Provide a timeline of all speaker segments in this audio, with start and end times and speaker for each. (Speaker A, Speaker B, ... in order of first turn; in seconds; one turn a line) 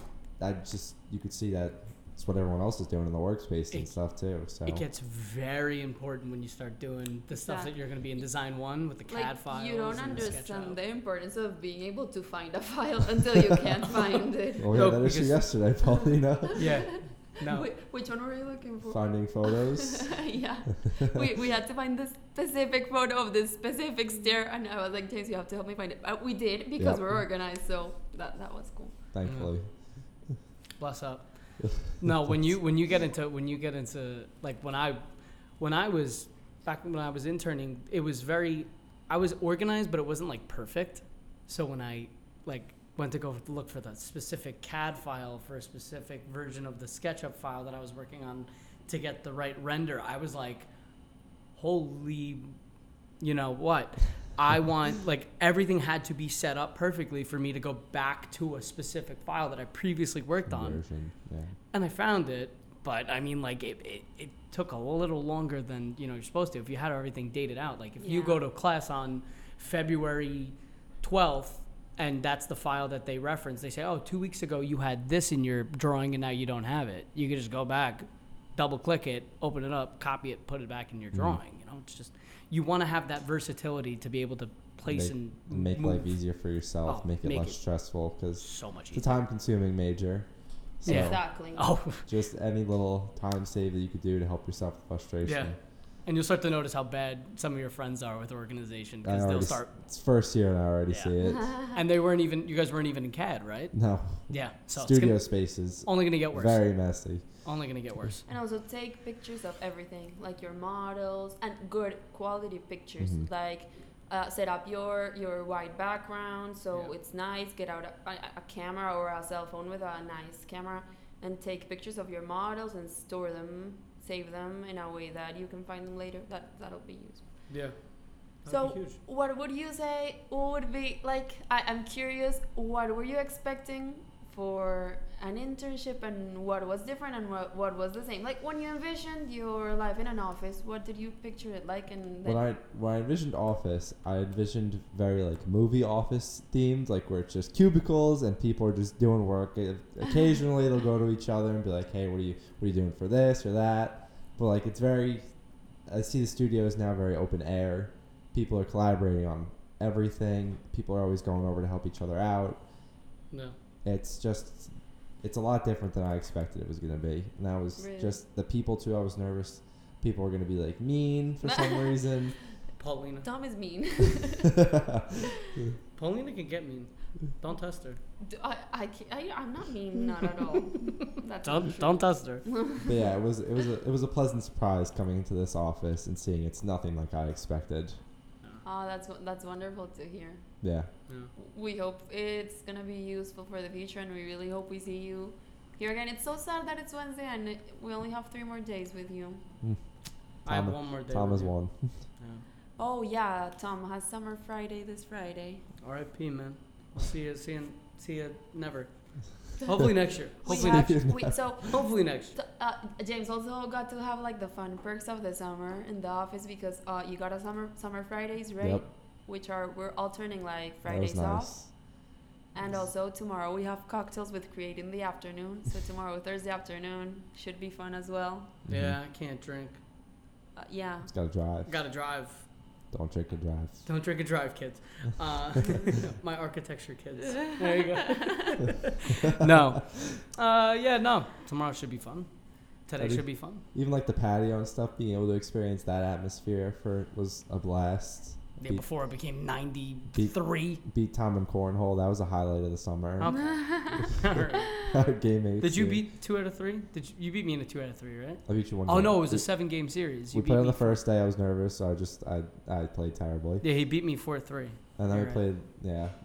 Speaker A: 0.4-4.8
Speaker B: 4.6-10.8
Speaker C: 7.4-7.7
Speaker C: 9.1-14.7
Speaker A: 10.0-10.3
Speaker A: 14.6-16.7
Speaker B: 14.7-15.5
Speaker C: 16.4-28.9
Speaker B: 16.6-17.7
Speaker A: 18.9-20.1
Speaker A: 26.8-27.2
Speaker A: 29.1-29.8
Speaker B: 29.2-29.5
Speaker B: 30.8-50.7
Speaker B: 51.5-52.5
Speaker B: 53.2-60.8
Speaker A: 60.5-61.5
Speaker B: 61.7-86.2
Speaker C: 68.0-68.4
Speaker A: 81.1-81.4
Speaker A: 84.9-90.3
Speaker B: 86.8-87.6
Speaker B: 88.4-89.1
Speaker A: 90.8-91.2
Speaker C: 90.8-91.7
Speaker B: 90.8-92.1
Speaker A: 92.0-95.5
Speaker B: 95.2-95.5
Speaker B: 96.0-99.7
Speaker A: 99.0-101.5
Speaker B: 100.9-108.2
Speaker C: 101.2-101.7
Speaker A: 103.7-107.4
Speaker C: 108.2-127.3
Speaker A: 113.0-113.3
Speaker B: 127.5-127.8
Speaker B: 128.3-129.0
Speaker C: 128.4-142.4
Speaker A: 142.2-155.3
Speaker A: 155.8-162.6
Speaker A: 163.8-172.3
Speaker C: 167.8-168.2
Speaker C: 171.4-172.0
Speaker B: 172.8-173.3
Speaker C: 173.2-174.6
Speaker A: 174.6-175.8
Speaker B: 175.9-178.0
Speaker C: 178.2-183.1
Speaker B: 181.4-182.5
Speaker A: 182.8-188.0
Speaker C: 188.6-190.4
Speaker A: 190.6-190.9
Speaker C: 191.3-199.4
Speaker A: 200.4-202.0
Speaker B: 200.4-201.5
Speaker B: 202.2-202.4
Speaker C: 202.8-205.6
Speaker B: 205.8-211.0
Speaker C: 209.6-221.8
Speaker A: 210.5-211.5
Speaker B: 211.6-212.4
Speaker A: 220.8-221.7
Speaker C: 222.5-228.6
Speaker A: 228.7-229.0
Speaker B: 228.7-229.8
Speaker C: 230.6-231.1
Speaker A: 231.1-231.7
Speaker B: 231.6-232.4
Speaker A: 232.9-233.8
Speaker B: 233.8-242.3
Speaker C: 237.4-238.5
Speaker B: 242.8-243.6
Speaker A: 243.0-248.8
Speaker B: 248.6-250.8
Speaker A: 250.1-253.8
Speaker B: 253.2-254.8
Speaker C: 253.3-254.1
Speaker A: 254.8-256.0
Speaker B: 255.6-261.0
Speaker A: 258.4-259.7
Speaker A: 260.3-263.6
Speaker B: 263.6-265.4
Speaker A: 265.0-266.1